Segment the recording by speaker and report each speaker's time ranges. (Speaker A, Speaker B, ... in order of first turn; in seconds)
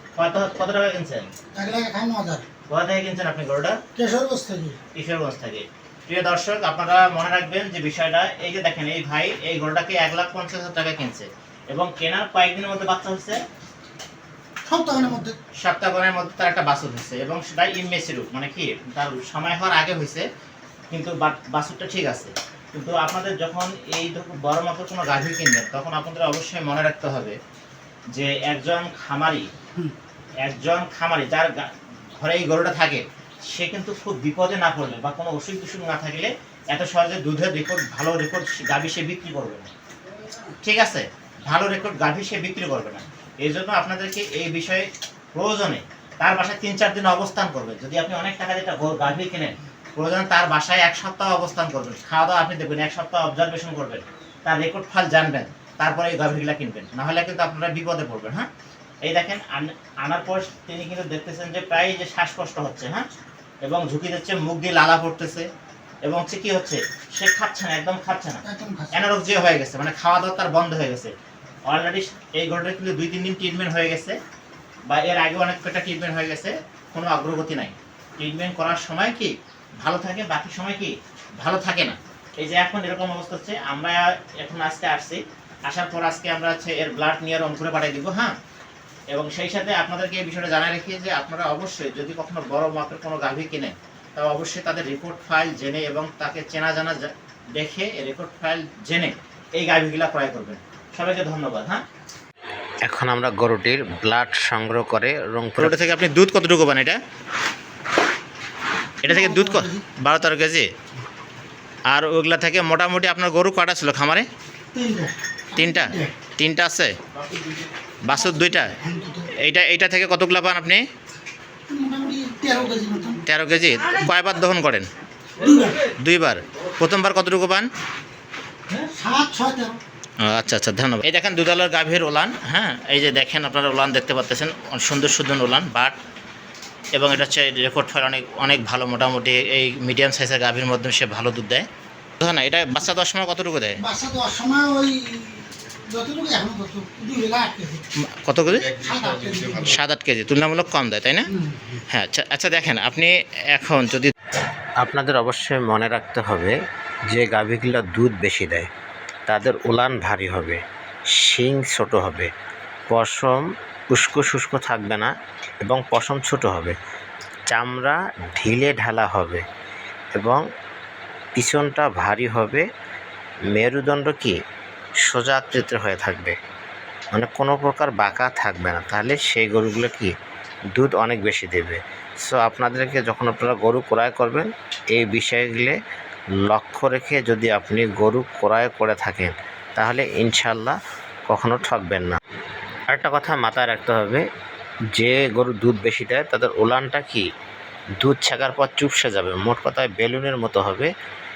Speaker A: 0.2-1.3, 2.7-3.8, 4.9-13.4, 15.6-20.2, 20.9-27.4, 28.1-29.5, 30.4-39.7, 40.6-58.5, 59.0-63.1, 63.6-65.5, 66.0-71.1, 71.7-74.2, 74.9-88.4, 89.1-101.8, 105.6-107.0, 109.0-110.7, 111.9-114.3, 115.6-116.9, 118.0-118.7, 119.4-120.8, 123.3-124.9, 126.0-127.7, 130.2-136.0, 137.0-141.7, 142.2-143.8, 148.2-148.7, 149.6-151.3, 151.9-154.1
Speaker B: 1.5-2.4, 4.0-4.8, 14.7-15.4, 40.1-40.6, 68.4-69.0, 109.1-109.8, 114.7-116.1, 118.1-119.3, 121.7-123.2, 125.4-125.8, 128.7-129.8, 143.8-147.8, 148.8-149.7, 151.3-151.8
Speaker C: 102.8-105.8, 154.8-156.6, 157.1-158.7, 159.3-160.6, 161.1-162.3, 162.9-165.1, 165.6-166.8, 167.5-169.4, 170.2-170.4, 171.4-172.6, 173.5-174.4, 175.0-176.4, 177.1-180.1, 180.7-185.8, 186.5-190.8, 191.3-192.2, 192.9-194.2, 194.9-197.2, 198.0-200.9